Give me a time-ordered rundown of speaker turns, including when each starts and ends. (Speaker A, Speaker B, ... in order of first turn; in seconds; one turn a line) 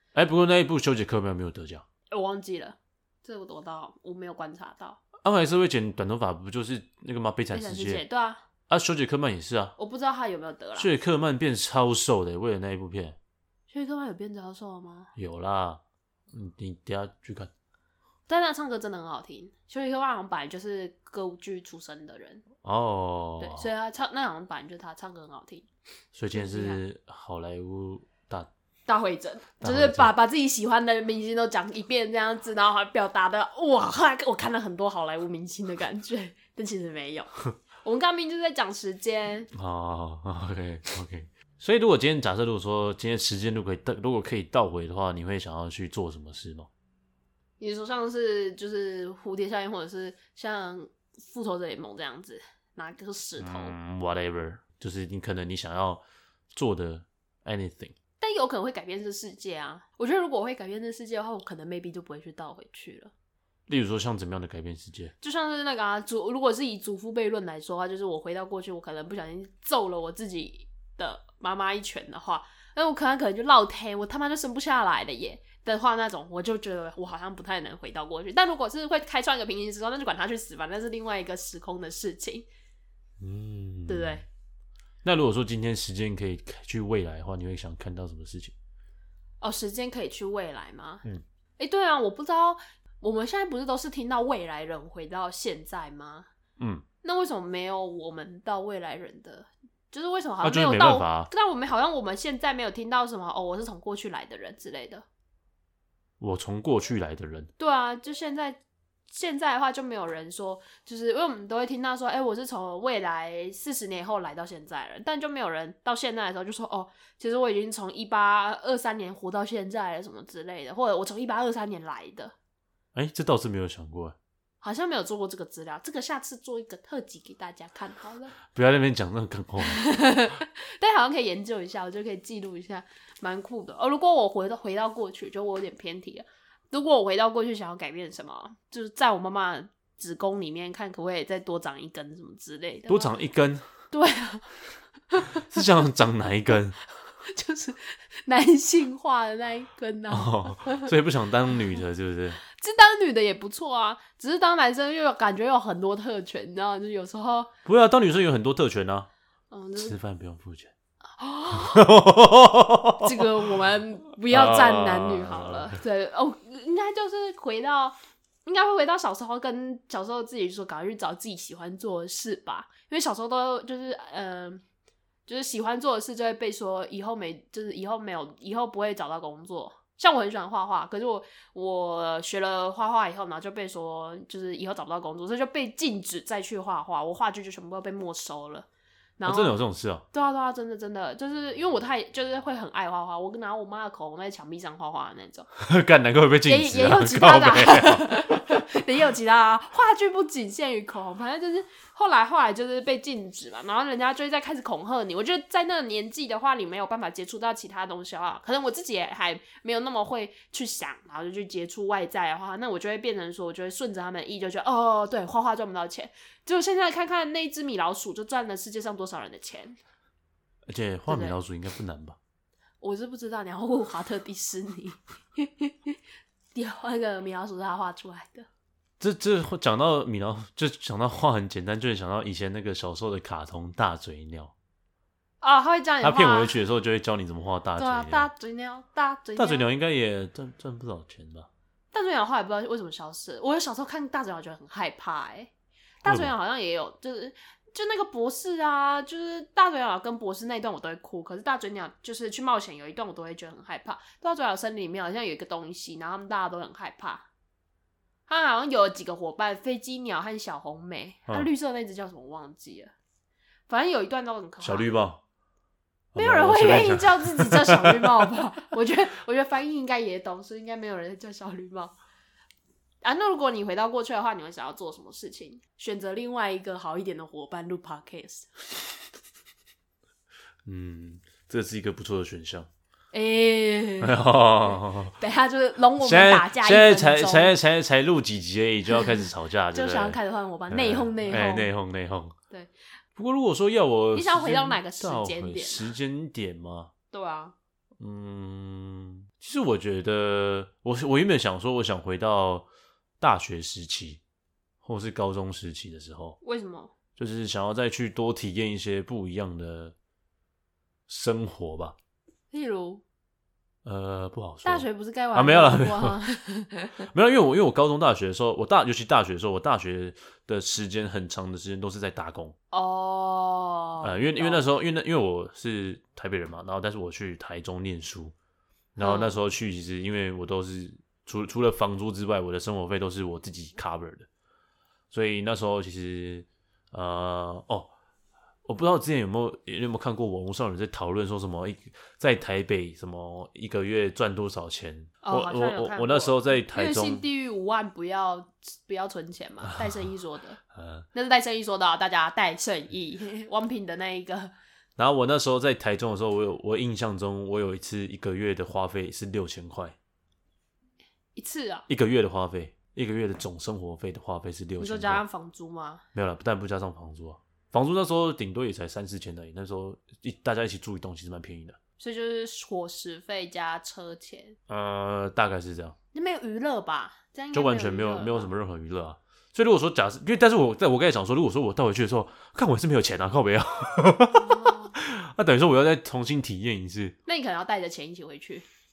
Speaker A: 0.1-1.8
Speaker B: 2.1-5.0
Speaker A: 5.2-8.0
Speaker B: 7.5-8.4
Speaker A: 8.7-9.7
Speaker B: 9.8-10.9
Speaker A: 10.8-13.2
Speaker B: 13.7-15.1
Speaker A: 15.2-15.8
Speaker A: 16.3-17.5
Speaker B: 18.3-22.4
Speaker A: 22.6-23.7
Speaker B: 23.4-25.7
Speaker A: 26.1-28.5
Speaker B: 26.3-26.8
Speaker B: 28.9-37.3
Speaker A: 29.6-30.1
Speaker B: 37.8-39.5
Speaker A: 39.5-46.7
Speaker B: 47.6-53.7
Speaker A: 53.4-57.9
Speaker B: 58.2-63.1
Speaker A: 63.7-65.1
Speaker B: 65.2-82.5
Speaker A: 83.2-84.2
Speaker B: 83.9-84.2
Speaker A: 85.0-88.5
Speaker B: 89.4-91.0
Speaker B: 91.6-96.3
Speaker A: 96.6-96.8
Speaker B: 97.0-105.0
Speaker A: 100.4-101.3
Speaker A: 106.2-107.5
Speaker B: 107.6-122.3
Speaker A: 122.9-124.2
Speaker B: 124.6-128.3
Speaker A: 128.5-129.8
Speaker B: 129.6-143.1
Speaker A: 142.9-143.7
Speaker B: 143.9-144.5
Speaker B: 145.1-145.4
Speaker A: 145.3-146.8
Speaker B: 147.1-150.9
Speaker A: 150.1-152.4
Speaker B: 152.4-157.5
Speaker A: 157.6-159.1
Speaker B: 159.5-159.9
Speaker A: 159.8-160.7
Speaker B: 161.2-161.9
Speaker A: 161.5-163.2
Speaker B: 163.0-174.6
Speaker A: 164.3-165.8
Speaker B: 175.3-188.7
Speaker B: 189.2-189.6
Speaker A: 189.2-190.0
Speaker B: 190.1-195.5
Speaker A: 195.6-198.6
Speaker B: 196.4-219.8
Speaker A: 220.7-222.2
Speaker B: 221.1-221.4
Speaker B: 222.8-226.0
Speaker B: 226.5-228.5
Speaker A: 229.0-234.5
Speaker B: 235.4-236.6
Speaker A: 236.0-238.3
Speaker B: 237.8-239.7
Speaker A: 239.4-241.5
Speaker B: 241.9-245.5
Speaker B: 246.0-257.3
Speaker A: 246.1-246.3
Speaker B: 258.3-262.9
Speaker B: 263.7-264.9
Speaker A: 264.6-265.2
Speaker A: 266.1-268.3
Speaker B: 266.1-271.9
Speaker B: 273.0-278.6
Speaker A: 280.6-282.7
Speaker B: 283.1-287.5
Speaker A: 284.0-285.1
Speaker A: 286.0-290.2
Speaker B: 289.7-291.7
Speaker A: 290.7-292.4
Speaker A: 293.1-296.9
Speaker B: 294.1-295.9
Speaker B: 297.1-297.5
Speaker A: 298.0-302.7
Speaker A: 303.2-304.2
Speaker A: 304.8-306.4
Speaker B: 306.4-306.9
Speaker A: 307.2-309.9
Speaker A: 311.1-311.9
Speaker B: 312.5-313.0
Speaker A: 313.8-316.2
Speaker B: 314.6-317.1
Speaker A: 317.0-322.5
Speaker B: 322.7-324.7
Speaker A: 324.0-328.3
Speaker A: 328.9-334.3
Speaker B: 329.0-329.3
Speaker A: 335.1-337.9
Speaker A: 338.6-347.2
Speaker B: 345.2-350.6
Speaker A: 349.6-350.0
Speaker A: 350.7-351.1
Speaker B: 351.1-354.5
Speaker A: 355.0-359.9
Speaker B: 361.4-361.9
Speaker A: 361.9-365.2
Speaker B: 364.8-366.0
Speaker A: 366.1-371.8
Speaker B: 372.0-374.6
Speaker A: 374.7-375.9
Speaker B: 376.1-378.5
Speaker A: 377.5-387.1
Speaker B: 384.3-384.9
Speaker B: 387.2-388.6